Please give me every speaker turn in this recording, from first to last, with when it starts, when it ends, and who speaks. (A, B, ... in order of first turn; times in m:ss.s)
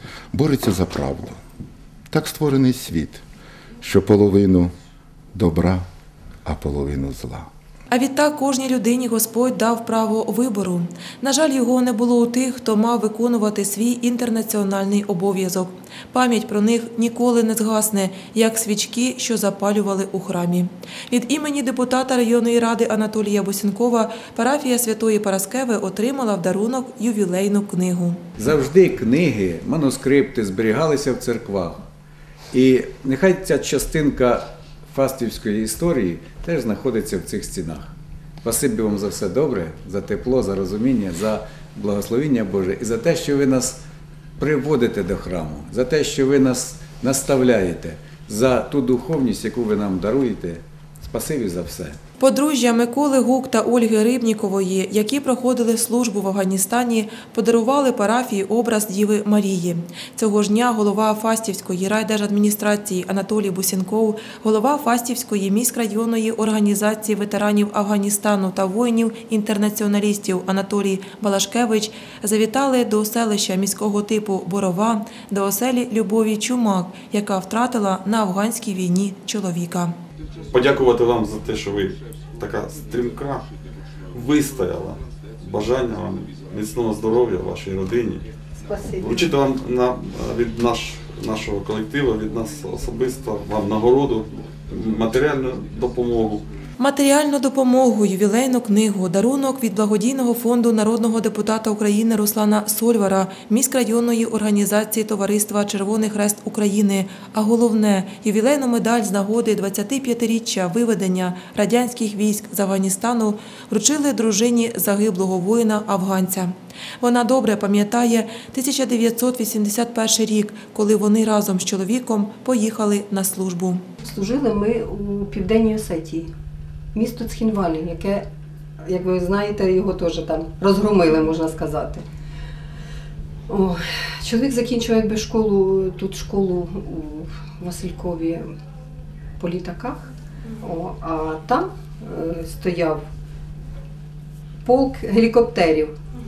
0:00.3-0:01.4 A
0:02.1-0:03.2 A
0:03.8-0:04.7 A
0:05.3-0:05.8 A
0:06.4-0:07.5 A
0:07.9-0:28.2 B
0:28.4-0:31.8 C
0:32.5-0:37.9 C
0:38.4-0:43.8 C
0:44.4-0:52.0 C
0:52.2-1:19.9 B
1:20.5-1:23.4 D
1:24.1-1:28.3 D
1:28.6-1:29.4 E
1:29.0-1:36.4 D
1:36.8-2:03.8 B
2:04.0-2:06.3 E
2:06.9-2:08.2 E
2:08.8-2:12.0 E
2:13.5-2:18.5 E
2:19.4-2:20.1 E
2:20.6-2:23.0 E
2:24.6-2:26.0 E